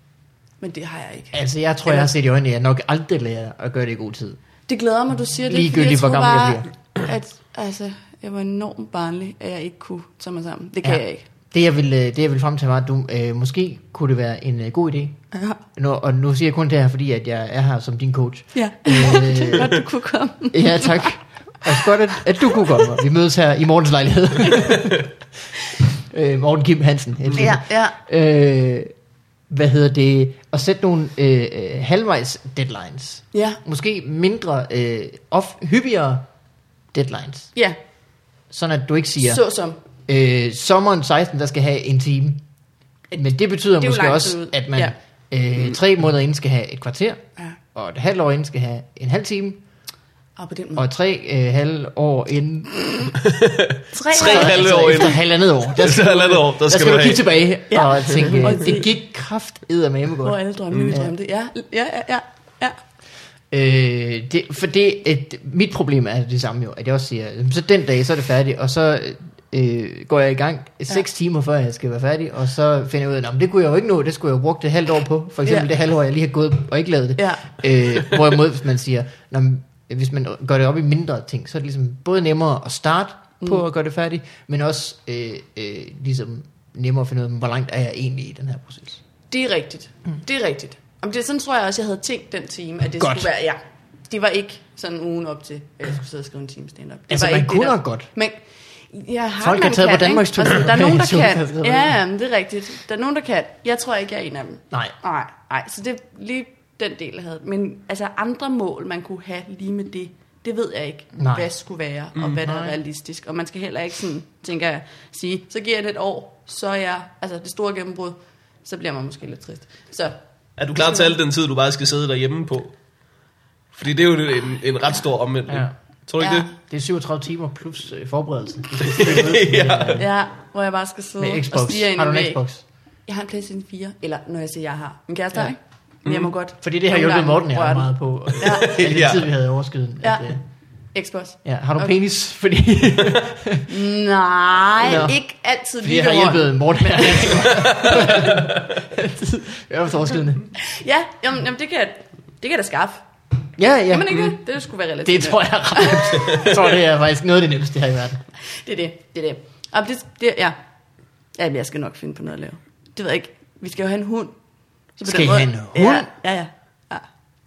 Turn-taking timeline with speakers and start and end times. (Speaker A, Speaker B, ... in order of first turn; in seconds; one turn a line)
Speaker A: 0.6-2.1
Speaker B: 1.3-4.4
Speaker A: 4.7-11.2
Speaker B: 5.5-6.7
Speaker B: 10.8-15.2
Speaker A: 15.3-15.6
Speaker B: 15.7-19.8
Speaker A: 18.5-21.2
Speaker B: 20.5-25.1
Speaker B: 26.1-28.9
Speaker A: 27.4-28.0
Speaker B: 29.5-36.2
Speaker A: 33.3-33.6
Speaker B: 36.9-37.5
Speaker B: 38.5-39.4
Speaker A: 39.2-39.8
Speaker B: 40.1-42.4
Speaker A: 43.1-45.0
Speaker B: 43.2-47.2
Speaker B: 47.7-49.6
Speaker A: 50.4-50.9
Speaker B: 50.8-52.7
Speaker C: 53.2-57.3
Speaker A: 53.9-55.1
Speaker B: 54.1-61.1
Speaker A: 57.7-58.9
Speaker A: 60.2-62.8
Speaker C: 60.7-61.0
Speaker B: 63.5-89.0
Speaker A: 77.2-77.5
Speaker A: 89.3-120.2
Speaker B: 93.0-93.3
Speaker B: 97.1-98.1
Speaker B: 99.4-102.0
Speaker B: 111.2-111.5
Speaker B: 112.4-112.8
Speaker C: 120.6-122.8
Speaker A: 120.8-121.1
Speaker C: 123.7-126.5
Speaker B: 125.5-125.7
Speaker A: 126.2-126.5
Speaker B: 126.5-130.1
Speaker C: 128.8-130.1
Speaker A: 130.0-132.4
Speaker B: 131.2-132.6
Speaker A: 133.1-138.8
Speaker C: 136.0-136.3
Speaker B: 136.6-140.4
Speaker C: 138.4-139.3
Speaker A: 140.0-140.3
Speaker A: 140.9-141.9
Speaker B: 141.4-143.7
Speaker A: 143.7-148.3
Speaker B: 144.8-145.2
Speaker B: 145.8-150.5
Speaker C: 147.6-148.7
Speaker A: 150.6-153.0
Speaker B: 153.6-154.4
Speaker A: 153.9-156.6
Speaker B: 155.1-158.2
Speaker A: 158.6-160.6
Speaker A: 161.4-164.4
Speaker A: 165.0-167.1
Speaker B: 165.1-166.1